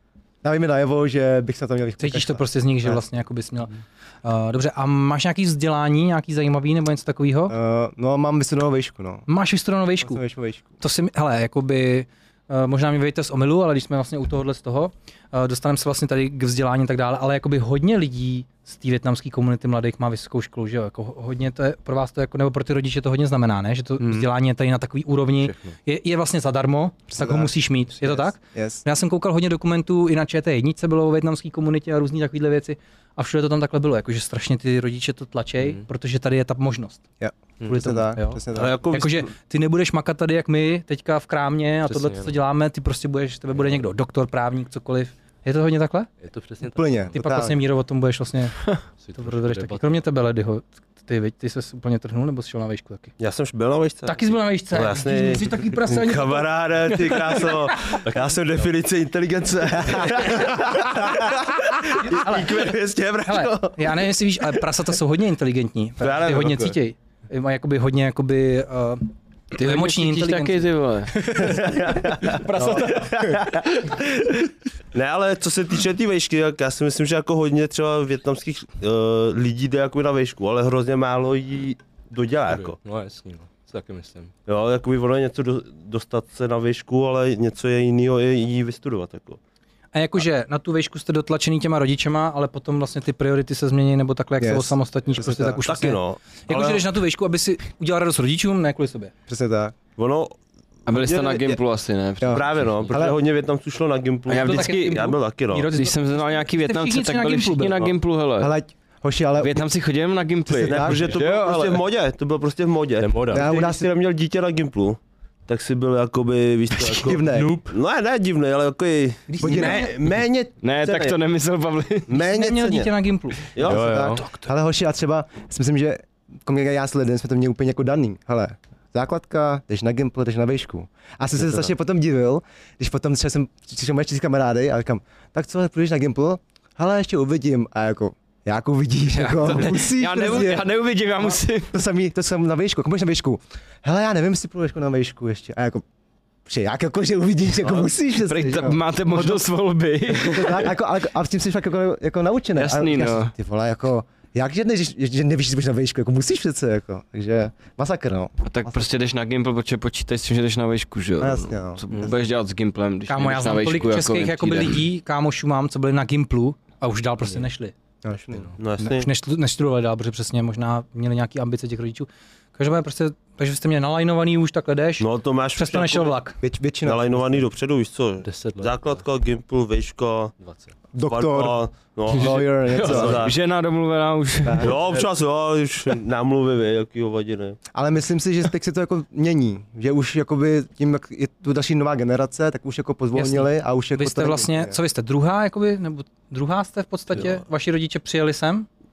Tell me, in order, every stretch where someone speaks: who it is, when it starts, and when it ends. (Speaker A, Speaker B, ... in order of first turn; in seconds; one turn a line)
Speaker A: 0.4-3.0
Speaker B: 2.0-7.5
Speaker A: 7.5-9.3
Speaker B: 9.3-10.2
Speaker A: 10.0-10.7
Speaker B: 10.8-37.0
Speaker A: 24.0-24.2
Speaker C: 25.4-25.8
Speaker A: 27.1-28.8
Speaker C: 35.6-35.8
Speaker A: 37.2-38.8
Speaker B: 37.6-46.1
Speaker D: 38.5-39.3
Speaker C: 41.9-42.3
Speaker C: 46.2-47.1
Speaker A: 46.7-47.6
Speaker B: 47.1-53.1
Speaker C: 49.0-50.0
Speaker D: 53.2-64.0
Speaker B: 54.0-56.5
Speaker B: 57.0-57.9
Speaker C: 58.0-58.7
Speaker B: 62.0-62.6
Speaker B: 63.2-73.5
Speaker D: 66.0-66.8
Speaker E: 69.5-71.1
Speaker D: 71.4-82.8
Speaker C: 82.5-84.3
Speaker D: 84.5-89.4
Speaker B: 89.9-99.1
Speaker A: 94.4-95.6
Speaker D: 95.6-96.8
Speaker A: 99.3-99.8
Speaker D: 100.0-100.4
Speaker E: 100.9-102.9
Speaker D: 100.9-101.6
Speaker A: 102.2-103.2
Speaker D: 102.3-105.7
Speaker E: 104.3-105.1
Speaker B: 104.3-107.8
Speaker E: 105.7-108.5
Speaker A: 108.4-109.6
Speaker E: 109.4-111.8
Speaker A: 110.5-111.0
Speaker D: 110.7-121.2
Speaker C: 113.0-113.6
Speaker A: 113.3-113.9
Speaker A: 116.9-117.6
Speaker B: 117.3-117.7
Speaker B: 119.3-119.9
Speaker A: 119.4-119.9
Speaker E: 120.6-122.1
Speaker D: 122.1-122.9
Speaker B: 122.2-124.5
Speaker D: 123.5-123.9
Speaker C: 123.6-124.2
Speaker A: 123.6-140.7
Speaker E: 139.1-141.7
Speaker A: 141.2-145.8
Speaker A: 146.4-149.4
Speaker E: 148.2-150.7
Speaker A: 150.1-158.9
Speaker E: 152.6-153.3
Speaker E: 158.4-164.8
Speaker A: 161.2-162.1
Speaker B: 163.1-167.7
Speaker A: 168.0-168.5
Speaker C: 168.3-168.5
Speaker D: 168.6-169.1
Speaker B: 168.8-176.4
Speaker D: 175.0-176.2
Speaker A: 176.4-177.5
Speaker D: 176.8-180.3
Speaker C: 178.2-179.0
Speaker C: 180.4-180.7
Speaker A: 180.9-183.3
Speaker D: 181.1-183.4
Speaker E: 182.2-184.7
Speaker A: 184.4-185.0
Speaker D: 184.6-187.6
Speaker A: 187.7-194.8
Speaker B: 193.2-198.7